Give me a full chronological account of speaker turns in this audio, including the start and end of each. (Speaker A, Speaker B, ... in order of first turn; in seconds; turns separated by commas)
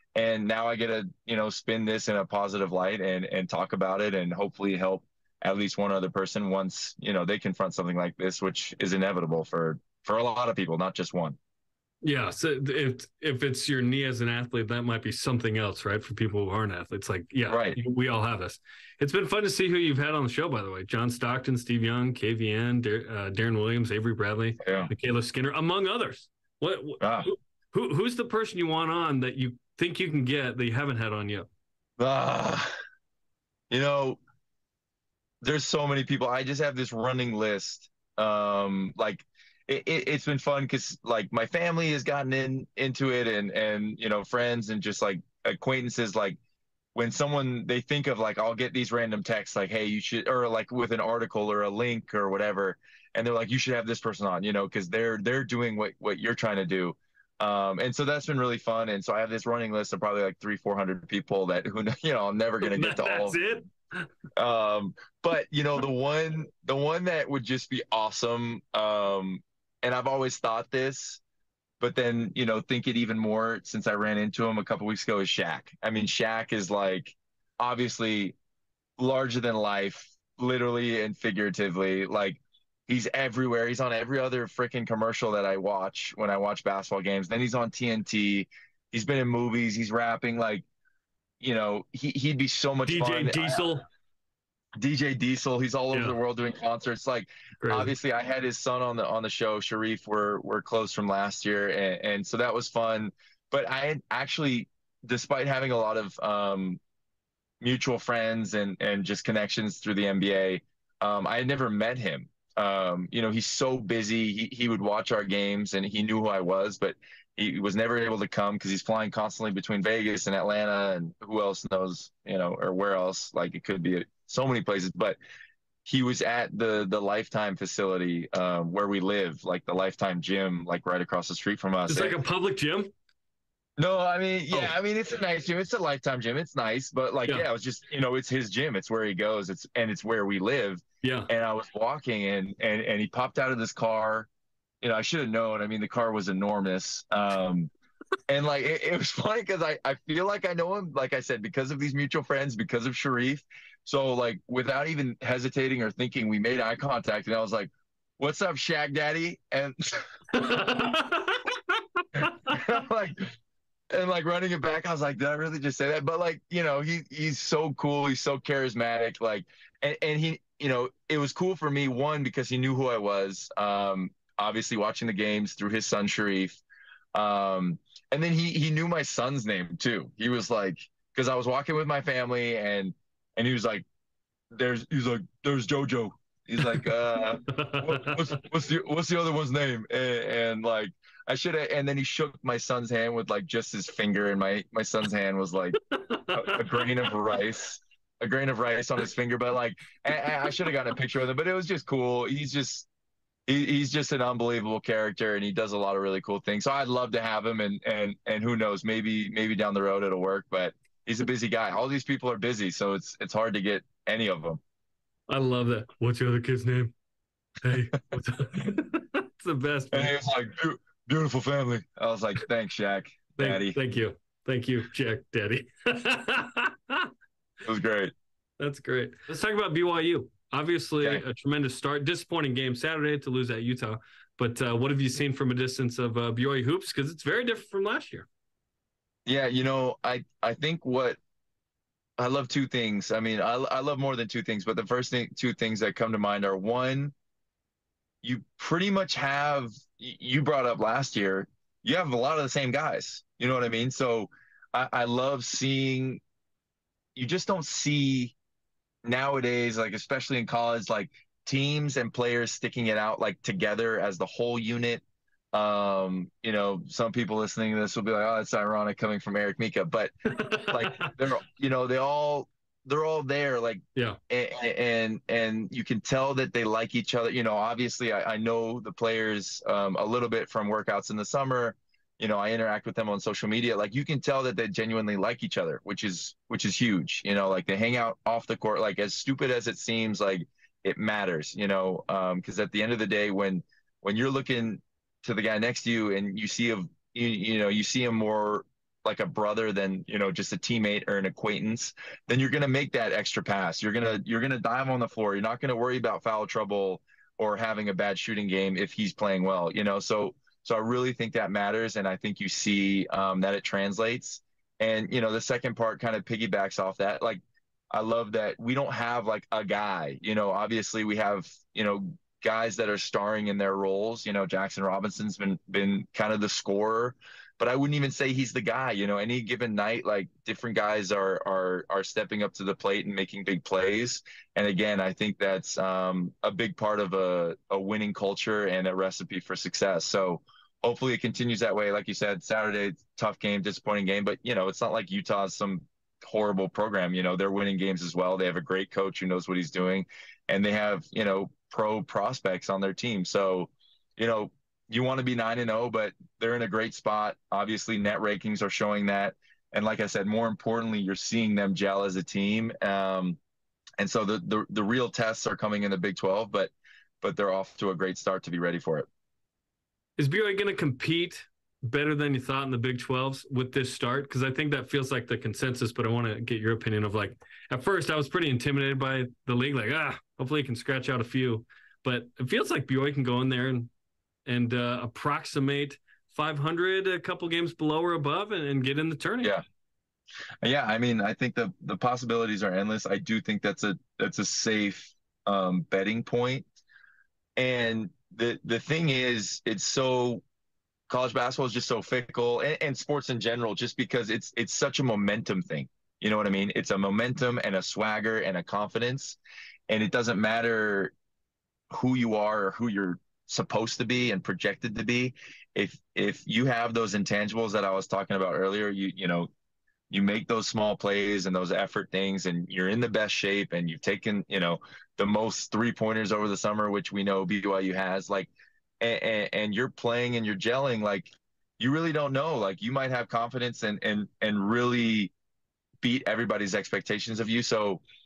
Speaker A: 0.1-11.4, Speaker B: 12.0-31.5, Speaker A: 17.5-17.8, Speaker A: 24.6-24.9, Speaker A: 27.0-27.3, Speaker A: 32.0-32.7, Speaker A: 33.7-34.2, Speaker A: 35.4-46.4, Speaker A: 46.9-63.4, Speaker B: 62.6-64.1, Speaker A: 64.4-71.2, Speaker A: 71.8-78.3, Speaker A: 79.0-90.7, Speaker A: 91.4-93.7, Speaker B: 92.8-93.8, Speaker A: 94.8-106.8, Speaker B: 97.6-97.9, Speaker A: 107.6-125.2, Speaker A: 125.8-132.2, Speaker B: 131.9-132.9, Speaker A: 133.8-144.3, Speaker B: 141.0-141.3, Speaker A: 144.8-147.7, Speaker A: 148.3-160.0, Speaker B: 160.3-162.5, Speaker A: 162.2-163.3, Speaker A: 163.9-176.6, Speaker A: 177.2-183.8, Speaker A: 184.5-195.8, Speaker B: 187.5-188.2, Speaker B: 196.1-197.1, Speaker A: 196.3-202.9, Speaker A: 203.5-214.6, Speaker B: 215.3-216.9, Speaker B: 217.6-220.1, Speaker A: 219.9-223.8, Speaker B: 223.4-227.1, Speaker A: 227.6-228.1, Speaker B: 228.6-238.2, Speaker A: 239.2-241.2, Speaker A: 242.2-247.1, Speaker A: 248.2-256.2, Speaker A: 257.1-258.4, Speaker A: 259.0-363.4, Speaker B: 270.4-271.1, Speaker A: 364.0-369.1, Speaker B: 370.2-383.9, Speaker B: 384.5-389.6, Speaker A: 390.6-396.6, Speaker A: 397.6-400.4, Speaker A: 401.1-409.4, Speaker A: 409.9-411.1, Speaker A: 411.9-419.5, Speaker A: 420.1-435.3, Speaker A: 436.0-438.0